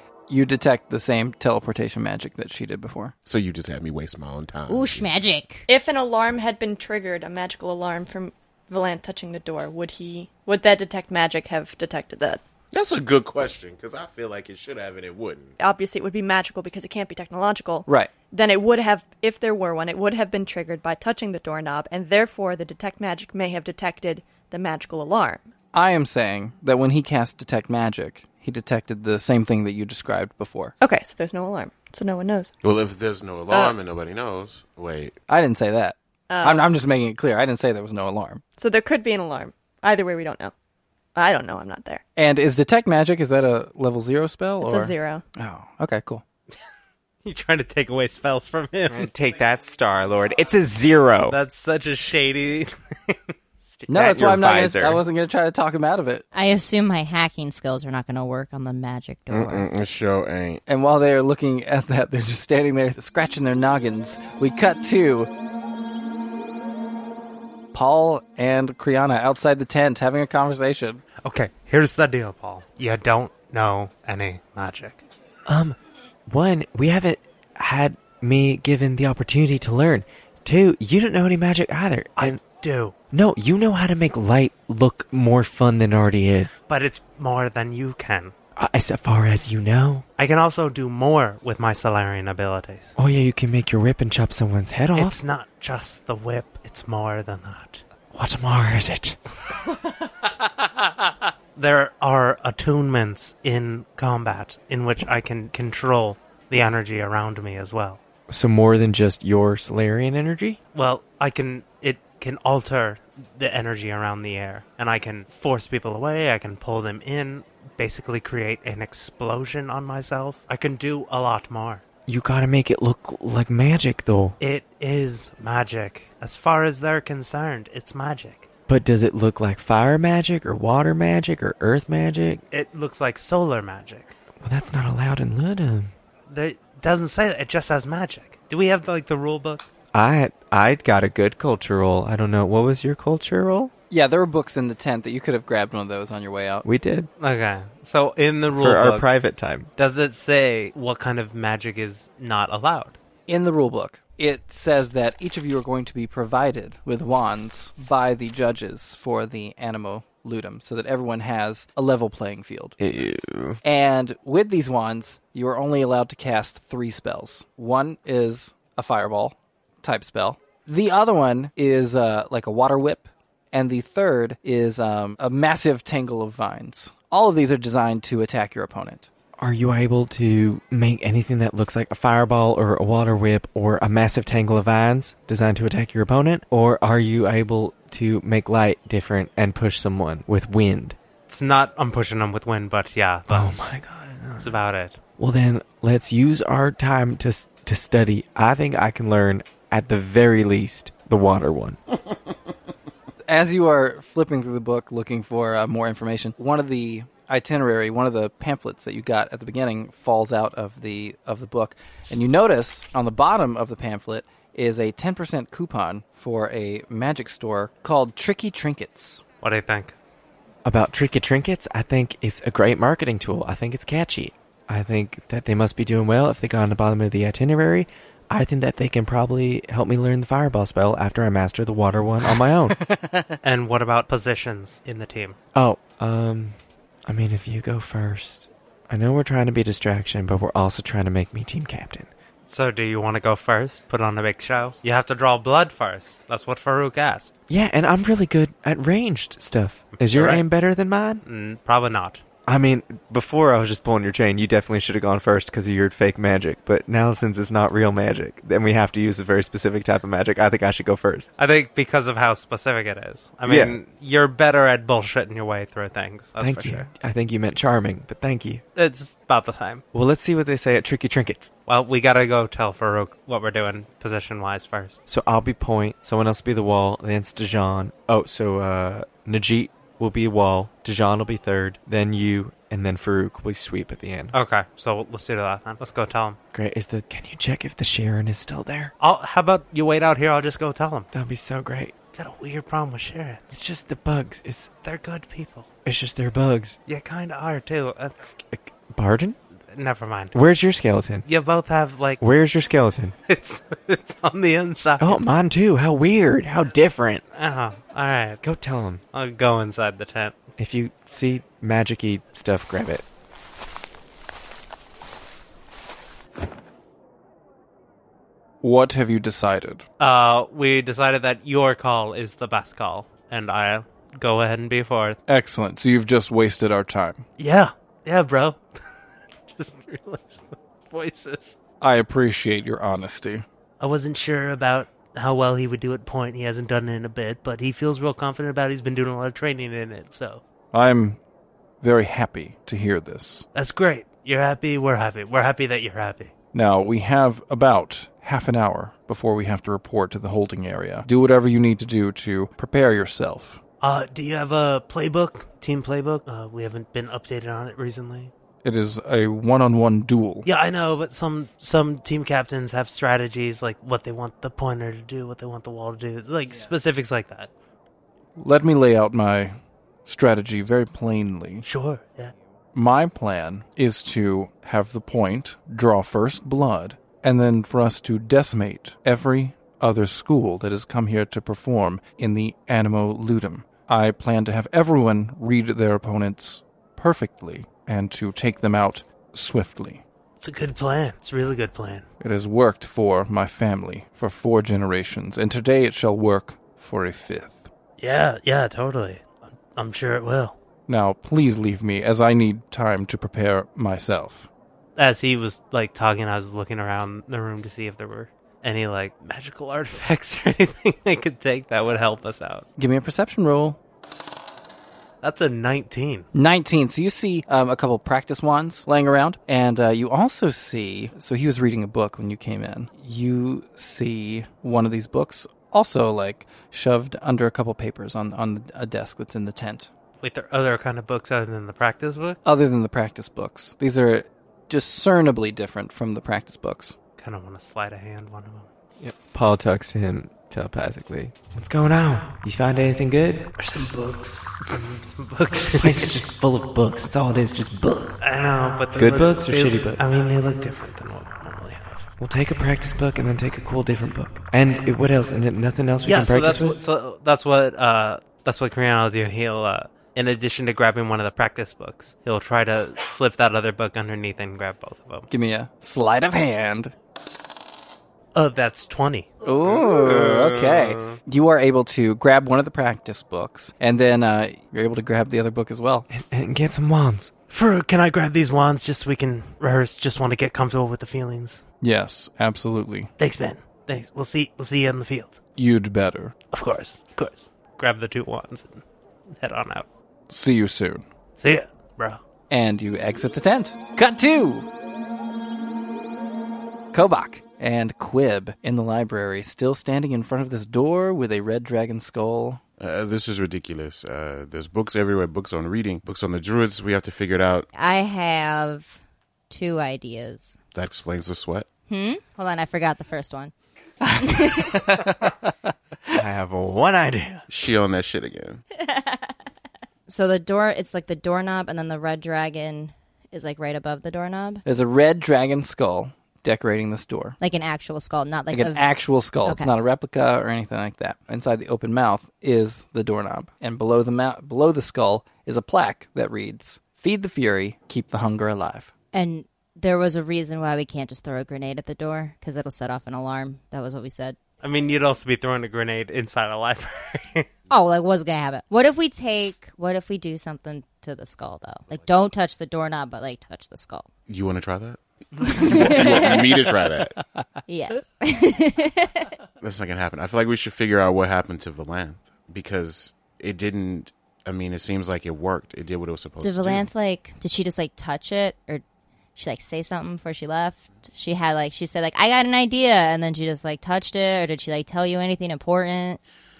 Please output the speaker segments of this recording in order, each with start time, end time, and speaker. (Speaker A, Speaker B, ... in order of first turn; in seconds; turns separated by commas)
Speaker A: 0.3-3.1, Speaker B: 3.2-5.1, Speaker C: 4.7-5.7, Speaker D: 5.7-12.4, Speaker B: 12.7-15.5, Speaker D: 15.6-25.5, Speaker A: 17.9-18.1, Speaker A: 25.7-30.7, Speaker D: 30.8-32.5, Speaker B: 32.6-35.1, Speaker D: 33.5-33.8, Speaker A: 35.3-38.4, Speaker D: 36.3-36.7, Speaker D: 38.6-40.5, Speaker D: 41.1-42.0, Speaker A: 42.1-46.2, Speaker D: 44.6-45.2, Speaker E: 47.2-49.1, Speaker F: 48.9-51.4, Speaker E: 51.3-53.2, Speaker F: 53.7-55.0, Speaker A: 53.9-56.2, Speaker C: 56.3-59.6, Speaker B: 59.3-60.6, Speaker A: 60.7-65.3, Speaker A: 67.7-71.0, Speaker E: 71.2-75.0, Speaker F: 75.5-75.8, Speaker F: 76.3-82.4, Speaker E: 82.2-82.9, Speaker F: 83.1-86.6, Speaker E: 86.7-88.3, Speaker F: 88.5-90.0, Speaker E: 90.2-92.9, Speaker F: 93.0-95.2, Speaker E: 94.9-97.8, Speaker F: 98.1-99.2, Speaker E: 101.5-108.0, Speaker F: 108.3-110.6, Speaker E: 110.7-121.8, Speaker F: 122.1-124.4, Speaker E: 124.4-128.5, Speaker F: 128.7-132.4, Speaker E: 132.5-134.2, Speaker F: 134.4-135.9, Speaker E: 136.3-139.6, Speaker F: 139.9-143.7, Speaker A: 143.9-146.7, Speaker F: 146.6-147.1, Speaker E: 147.2-149.1, Speaker F: 148.5-149.7, Speaker E: 149.8-153.0, Speaker A: 153.3-162.8, Speaker F: 162.8-163.6, Speaker A: 163.6-179.1, Speaker F: 179.4-191.0, Speaker E: 191.3-193.8, Speaker F: 193.3-194.6, Speaker E: 194.4-195.0, Speaker F: 195.2-201.8, Speaker A: 203.3-219.2, Speaker E: 219.4-219.9, Speaker F: 220.6-232.8, Speaker A: 232.8-233.3, Speaker E: 233.4-235.4, Speaker F: 235.5-242.1, Speaker E: 242.5-247.3, Speaker F: 247.5-251.2, Speaker E: 249.9-250.4, Speaker E: 251.2-252.2, Speaker F: 252.5-261.3, Speaker E: 261.4-266.9, Speaker F: 263.4-263.8, Speaker F: 266.4-268.6, Speaker E: 268.8-269.8, Speaker F: 269.9-271.5, Speaker E: 271.7-275.0, Speaker F: 275.1-284.3, Speaker E: 284.3-286.4, Speaker F: 286.5-288.9, Speaker E: 289.0-291.1, Speaker F: 291.1-291.9, Speaker E: 292.1-293.5, Speaker F: 293.5-294.7, Speaker E: 294.8-295.7, Speaker F: 295.8-296.8, Speaker E: 296.9-298.3, Speaker F: 298.5-299.4, Speaker E: 299.7-300.4, Speaker F: 300.3-301.3, Speaker E: 301.3-302.2, Speaker F: 302.2-303.1, Speaker E: 303.3-305.2, Speaker F: 305.0-307.2, Speaker E: 307.3-308.4, Speaker F: 308.4-309.0, Speaker E: 309.1-310.4, Speaker F: 310.6-313.0, Speaker A: 318.6-319.8, Speaker E: 320.0-325.2, Speaker A: 325.3-327.2, Speaker E: 327.4-328.6, Speaker E: 329.5-331.5, Speaker A: 331.8-333.4, Speaker E: 333.8-340.4, Speaker A: 340.7-341.2, Speaker A: 341.8-343.5, Speaker E: 343.5-346.3, Speaker A: 346.5-353.6, Speaker E: 353.8-358.3, Speaker A: 358.6-360.5, Speaker E: 360.4-367.5, Speaker A: 368.4-371.6, Speaker E: 371.6-372.3, Speaker A: 372.7-390.0, Speaker E: 390.4-392.1, Speaker A: 392.2-397.7, Speaker E: 398.0-400.6, Speaker A: 400.9-404.5, Speaker E: 405.0-412.6, Speaker A: 412.8-413.8, Speaker E: 415.2-416.2, Speaker A: 416.3-429.9, Speaker E: 430.2-432.6, Speaker A: 432.4-436.9, Speaker E: 437.2-438.7, Speaker F: 439.0-443.5, Speaker E: 443.6-446.1, Speaker F: 445.8-448.2, Speaker E: 448.2-452.0, Speaker F: 448.9-450.1, Speaker F: 452.2-456.8, Speaker E: 456.0-465.3, Speaker A: 465.3-466.9, Speaker E: 468.3-469.3, Speaker A: 469.4-476.1, Speaker B: 470.1-470.5, Speaker F: 476.1-477.3, Speaker E: 477.5-481.6, Speaker A: 481.8-483.1, Speaker E: 483.2-485.4, Speaker A: 485.6-486.3, Speaker E: 486.5-488.8, Speaker E: 489.4-489.9, Speaker A: 490.3-491.0, Speaker E: 491.4-492.2, Speaker A: 492.5-494.7, Speaker A: 496.9-502.6, Speaker B: 502.8-507.7, Speaker C: 507.7-509.0, Speaker C: 509.5-510.6, Speaker B: 510.7-511.7, Speaker C: 511.9-513.5, Speaker A: 514.1-515.7, Speaker C: 514.2-514.9, Speaker F: 516.1-517.4, Speaker B: 517.5-518.6, Speaker C: 520.1-524.6, Speaker A: 524.6-527.4, Speaker C: 527.4-529.7, Speaker A: 528.5-538.9, Speaker C: 539.1-544.4, Speaker E: 544.6-547.5, Speaker C: 547.7-554.1, Speaker B: 554.3-557.2, Speaker A: 555.4-555.8, Speaker C: 555.5-556.7, Speaker C: 557.7-559.3, Speaker B: 559.6-566.9, Speaker C: 566.4-568.8, Speaker C: 569.4-576.2